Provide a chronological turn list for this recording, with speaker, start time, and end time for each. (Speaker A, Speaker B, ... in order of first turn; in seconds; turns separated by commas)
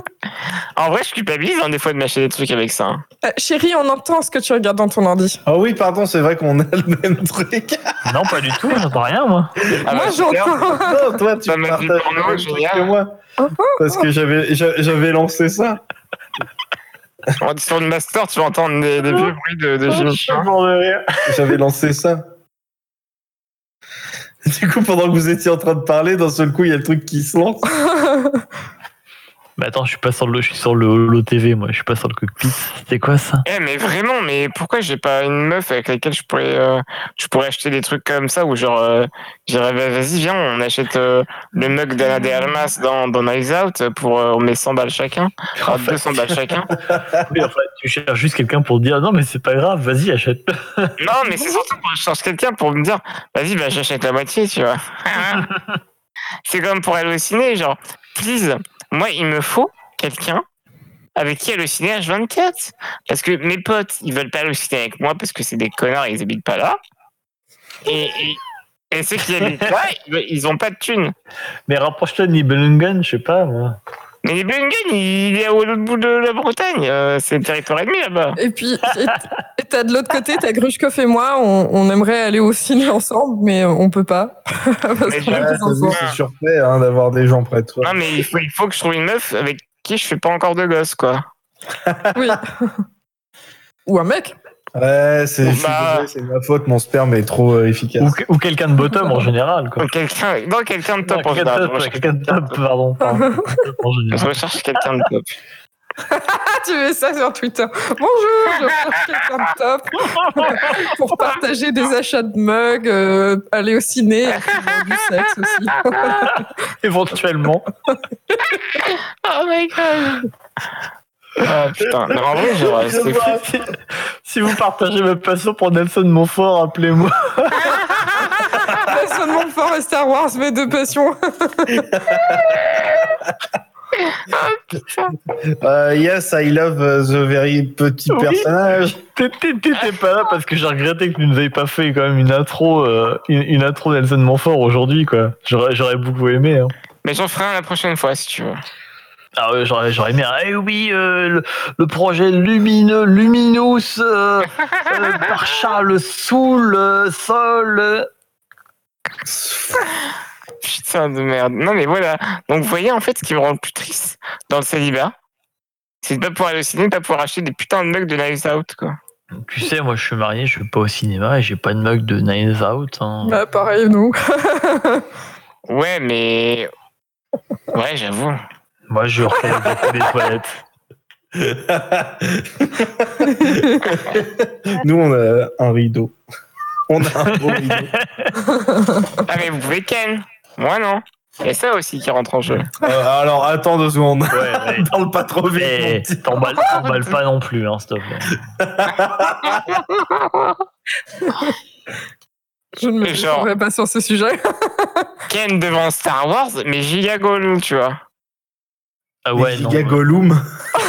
Speaker A: 0.8-3.0, Speaker B: 3.2-5.4, Speaker C: 5.5-8.0, Speaker D: 8.1-9.6, Speaker A: 9.8-10.9, Speaker B: 9.8-11.0, Speaker C: 10.7-13.2, Speaker A: 11.4-12.9, Speaker B: 13.4-14.1, Speaker C: 13.8-15.8, Speaker A: 17.4-20.5, Speaker D: 19.9-21.6, Speaker C: 21.3-22.3, Speaker C: 24.4-27.7, Speaker B: 27.7-28.4, Speaker D: 29.6-33.4, Speaker A: 33.5-46.7, Speaker D: 45.6-46.0, Speaker C: 46.8-47.4, Speaker D: 47.3-51.0, Speaker A: 51.0-55.5, Speaker D: 55.2-55.6, Speaker A: 56.5-60.4, Speaker A: 61.1-66.8, Speaker A: 67.8-71.1, Speaker D: 71.7-73.8, Speaker A: 74.2-78.4, Speaker B: 78.4-86.0, Speaker A: 85.1-86.2, Speaker C: 85.2-88.0, Speaker A: 87.8-91.2, Speaker C: 91.8-92.4, Speaker B: 92.1-92.7, Speaker B: 93.8-94.3, Speaker C: 94.8-98.2, Speaker A: 95.4-96.1, Speaker D: 98.0-99.8, Speaker A: 99.8-102.6, Speaker D: 101.0-104.3, Speaker B: 103.0-103.5, Speaker A: 104.1-105.3, Speaker B: 106.0-116.5, Speaker D: 110.2-110.8, Speaker D: 116.2-117.7, Speaker B: 117.9-118.5, Speaker A: 118.8-120.3, Speaker A: 121.4-123.4, Speaker D: 122.4-127.8, Speaker C: 122.8-123.3, Speaker B: 128.8-131.9, Speaker C: 131.7-132.6, Speaker A: 132.6-133.0, Speaker A: 134.0-135.2, Speaker C: 135.3-139.0, Speaker D: 138.1-146.7, Speaker A: 147.0-148.6, Speaker D: 149.3-158.1, Speaker C: 159.2-159.8, Speaker A: 160.6-165.1, Speaker A: 166.0-168.9, Speaker D: 169.3-173.4, Speaker B: 173.2-175.1, Speaker A: 175.7-176.7, Speaker A: 177.7-178.4, Speaker D: 178.9-180.6, Speaker C: 181.3-186.2, Speaker B: 183.3-183.7, Speaker C: 186.9-187.9, Speaker D: 187.2-188.3, Speaker B: 188.4-189.2, Speaker A: 189.2-192.7, Speaker C: 192.8-196.6, Speaker D: 194.3-194.9, Speaker D: 195.6-198.4, Speaker C: 198.6-199.7, Speaker A: 199.6-200.6, Speaker B: 201.2-201.5, Speaker B: 202.8-205.1, Speaker A: 203.0-203.5, Speaker A: 205.3-208.0, Speaker D: 209.2-210.0, Speaker C: 209.3-210.4